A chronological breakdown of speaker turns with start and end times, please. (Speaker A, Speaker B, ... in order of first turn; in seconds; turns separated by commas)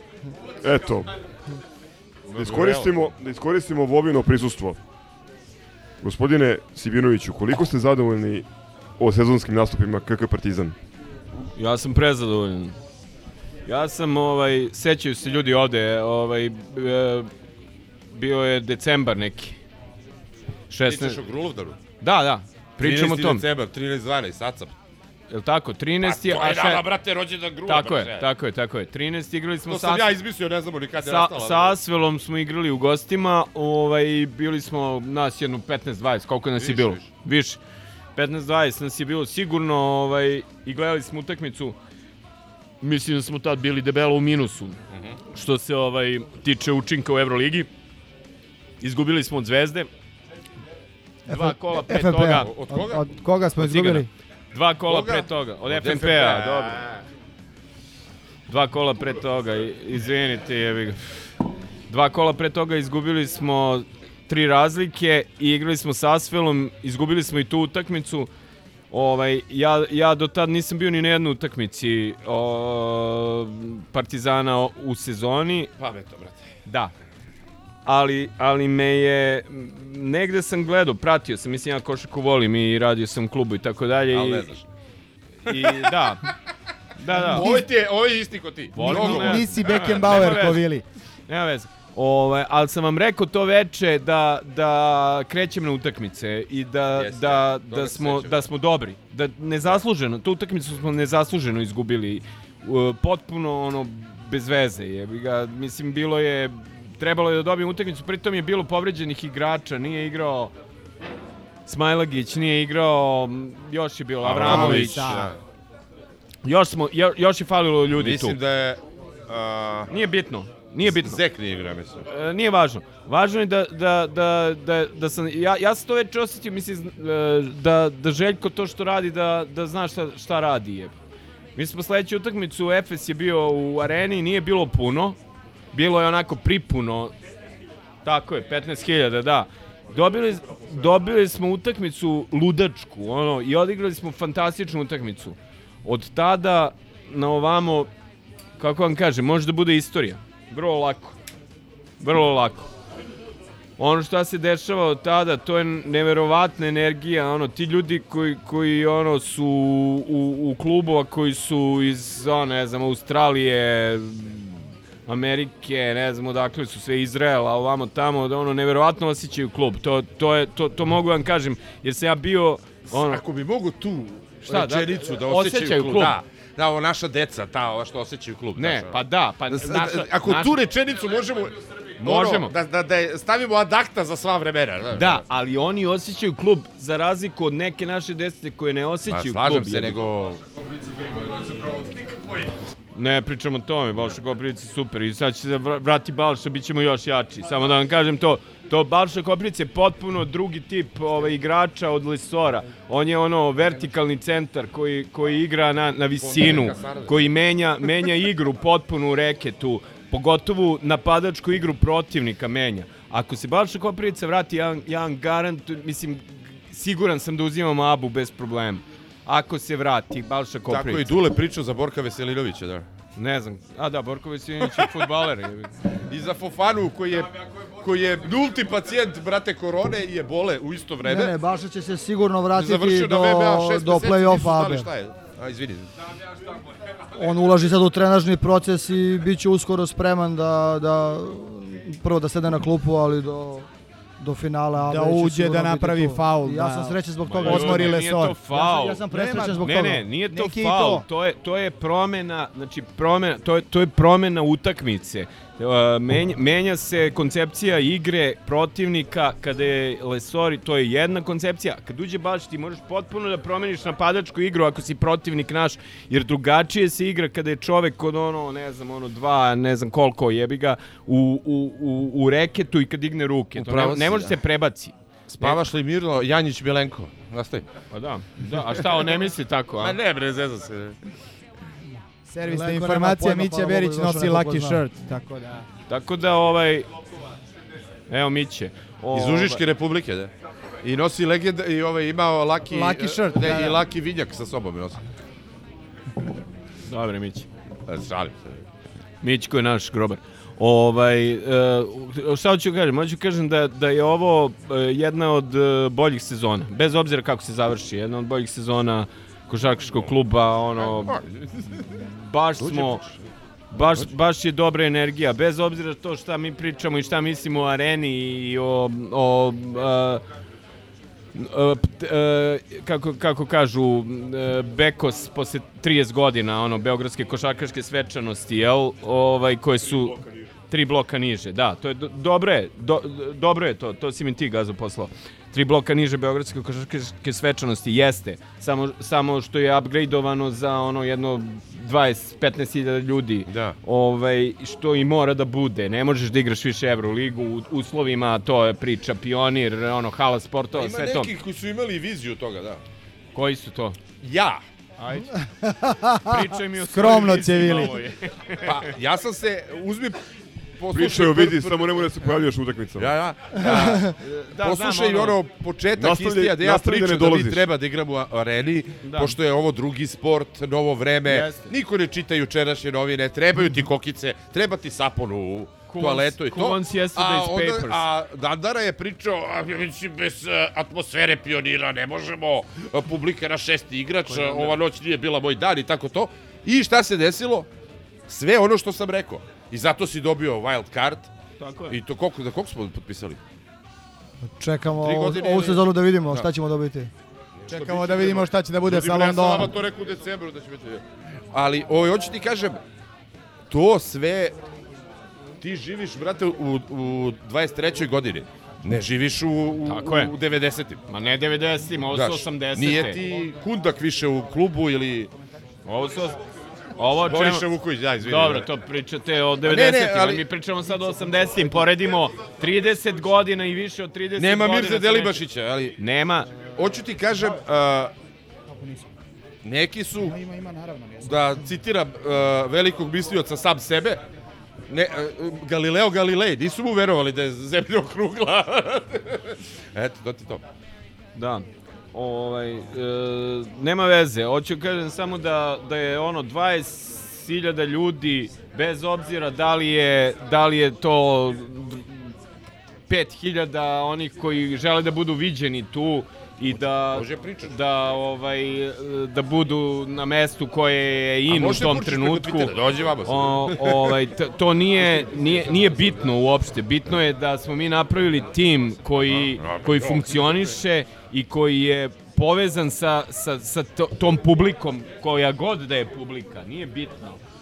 Speaker A: 0.6-1.1, Speaker B: 2.3-3.1, Speaker A: 2.4-4.8, Speaker A: 6.0-8.5, Speaker A: 9.0-10.8, Speaker C: 11.6-12.8, Speaker C: 13.7-17.3, Speaker C: 18.1-19.6, Speaker C: 20.7-21.2, Speaker B: 20.8-21.8, Speaker C: 22.0-23.4, Speaker B: 22.8-24.7, Speaker C: 25.3-26.8, Speaker B: 26.0-28.3, Speaker C: 27.7-30.1, Speaker B: 29.7-31.8, Speaker C: 31.0-37.6, Speaker B: 36.6-37.1, Speaker C: 38.2-41.8, Speaker C: 42.8-44.8, Speaker B: 44.9-45.2, Speaker C: 45.3-47.7, Speaker C: 48.8-49.9, Speaker C: 51.3-52.7, Speaker D: 51.3-54.1, Speaker E: 51.3-52.3, Speaker B: 52.3-53.0, Speaker C: 53.6-56.8, Speaker B: 54.9-57.0, Speaker C: 58.5-61.1, Speaker C: 61.9-68.3, Speaker C: 68.9-75.7, Speaker B: 75.8-76.5, Speaker C: 76.7-76.9, Speaker C: 77.8-84.5, Speaker B: 84.1-84.7, Speaker C: 85.5-86.2, Speaker B: 85.5-86.0, Speaker C: 87.0-87.6, Speaker D: 87.1-87.7, Speaker B: 87.1-90.6, Speaker C: 88.7-90.7, Speaker D: 88.8-90.8, Speaker C: 91.3-110.5, Speaker B: 97.0-98.5, Speaker C: 111.7-115.3, Speaker B: 114.2-115.4, Speaker D: 114.5-115.2, Speaker C: 116.5-118.4, Speaker B: 117.9-119.9, Speaker C: 119.9-121.2, Speaker B: 120.8-122.1, Speaker C: 122.1-130.9, Speaker C: 131.6-135.2, Speaker C: 135.7-137.1, Speaker C: 138.1-147.9, Speaker C: 148.6-151.2, Speaker C: 152.0-152.7, Speaker C: 153.8-173.2, Speaker B: 172.9-185.2, Speaker C: 174.4-176.2, Speaker C: 178.6-180.6, Speaker C: 182.0-182.5, Speaker C: 184.9-190.0, Speaker B: 189.1-190.4, Speaker C: 192.9-221.1, Speaker B: 206.1-207.2, Speaker B: 220.7-222.9, Speaker C: 223.2-225.7, Speaker B: 224.6-224.9, Speaker B: 226.1-231.4, Speaker E: 231.0-234.9, Speaker B: 232.5-235.9, Speaker E: 237.2-243.7, Speaker E: 244.2-248.0, Speaker D: 244.8-248.4, Speaker B: 247.2-247.8, Speaker C: 247.4-275.6, Speaker E: 248.5-250.1, Speaker D: 249.1-251.1, Speaker B: 273.6-274.4, Speaker B: 275.3-277.7, Speaker C: 277.9-280.0, Speaker B: 278.5-279.2, Speaker B: 279.8-281.0, Speaker D: 282.3-285.7, Speaker E: 282.4-284.8, Speaker C: 285.9-286.9, Speaker C: 288.1-289.6, Speaker B: 289.1-290.3, Speaker B: 290.8-295.0, Speaker D: 292.7-293.8, Speaker C: 296.9-297.5, Speaker B: 297.9-298.6, Speaker C: 299.2-311.2, Speaker B: 309.7-310.2, Speaker B: 310.8-311.5, Speaker C: 311.9-313.0, Speaker B: 312.6-313.2, Speaker C: 313.7-320.2, Speaker C: 321.4-330.2, Speaker C: 330.7-351.3, Speaker B: 343.5-343.8, Speaker B: 350.7-352.8, Speaker C: 353.4-354.0, Speaker B: 354.2-354.6, Speaker C: 355.0-355.3, Speaker C: 356.2-358.8, Speaker D: 356.8-358.0, Speaker B: 358.6-360.2, Speaker B: 360.8-362.1, Speaker A: 360.9-363.1, Speaker B: 363.0-387.7, Speaker C: 363.7-365.4, Speaker A: 366.0-367.6, Speaker C: 369.0-369.4, Speaker C: 371.2-371.7, Speaker C: 375.9-378.0, Speaker C: 384.3-384.8, Speaker B: 388.3-391.3, Speaker C: 391.6-392.0, Speaker B: 391.9-393.4, Speaker E: 394.6-397.1, Speaker B: 395.0-396.5, Speaker B: 397.6-402.8, Speaker D: 397.7-399.7, Speaker B: 403.7-404.5, Speaker B: 405.6-411.1, Speaker C: 409.9-410.3, Speaker C: 411.1-413.2, Speaker B: 412.1-415.3, Speaker C: 415.9-416.4, Speaker C: 417.0-417.7, Speaker B: 417.2-418.7, Speaker C: 418.2-425.4, Speaker B: 419.6-420.5, Speaker B: 421.6-421.9, Speaker B: 424.4-426.0, Speaker C: 426.0-426.6, Speaker B: 426.6-428.1, Speaker D: 428.7-429.1, Speaker B: 429.6-430.4, Speaker D: 430.2-431.3, Speaker B: 431.2-434.2, Speaker B: 434.9-440.6, Speaker C: 441.4-452.3, Speaker C: 453.1-462.8, Speaker B: 456.7-457.8, Speaker B: 461.5-464.2, Speaker C: 463.3-477.4, Speaker B: 465.0-466.3, Speaker B: 469.2-470.8